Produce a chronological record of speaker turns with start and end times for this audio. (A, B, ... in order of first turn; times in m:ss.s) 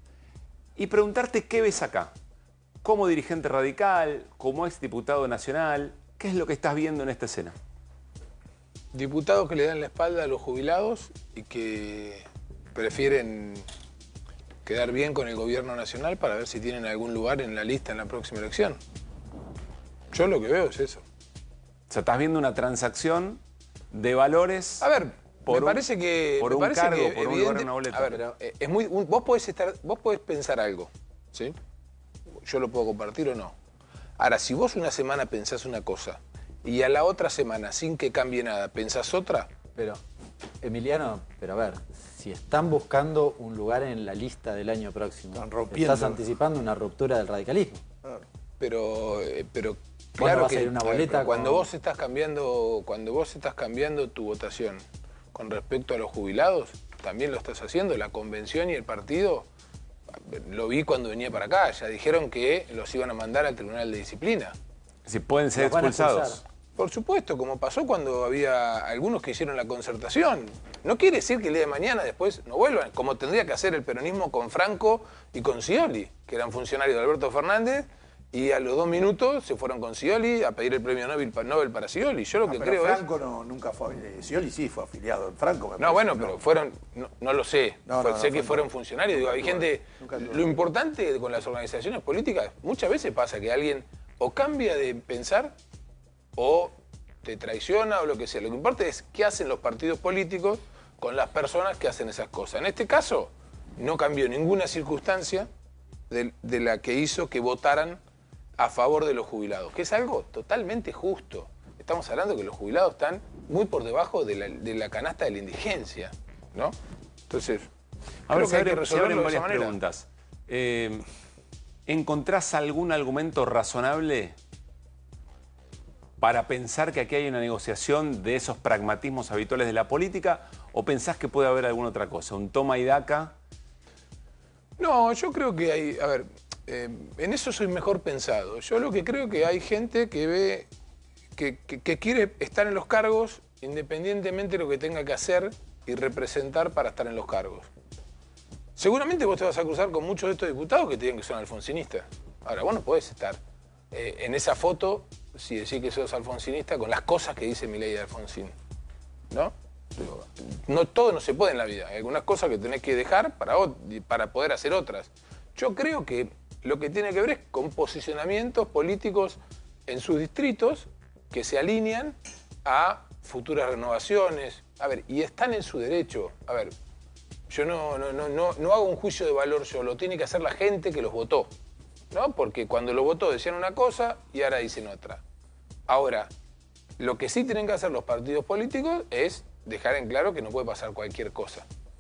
0:00.8-0:02.1 A
0:02.8-0:07.5 A
0:08.9-0:13.6 B
0:14.7-0:18.8 B
0:20.1-0:21.0 B
0:21.9-0:23.4 A
0:23.9-0:24.9 A
0:24.8-0:31.6 B
0:25.5-0:25.8 A
0:26.4-0:28.2 A
0:32.4-0:33.5 B
0:34.2-0:39.5 B
0:39.8-0:40.0 C
0:40.6-0:47.8 C
0:45.3-0:46.2 D
0:48.6-0:54.8 B
0:50.2-0:51.7 C
0:55.3-0:59.5 B
1:00.2-1:04.6 B
1:05.1-1:06.4 A
1:05.6-1:06.4 C
1:06.8-1:23.0 B
1:22.4-1:26.4 D
1:25.8-1:35.6 B
1:27.9-1:30.6 D
1:36.4-1:45.5 B
1:46.1-1:48.0 B
1:48.6-1:56.8 B
1:57.3-1:57.7 B
1:58.3-2:01.0 A
1:58.3-1:59.8 B
2:01.9-2:04.4 A
2:06.2-2:13.3 A
2:14.8-2:20.7 B
2:21.4-2:27.7 B
2:28.8-2:33.4 B
2:33.9-2:38.5 B
2:39.3-2:56.7 B
2:57.5-3:01.5 B
3:02.1-3:05.2 B
3:05.9-3:06.3 B
3:07.0-3:11.7 B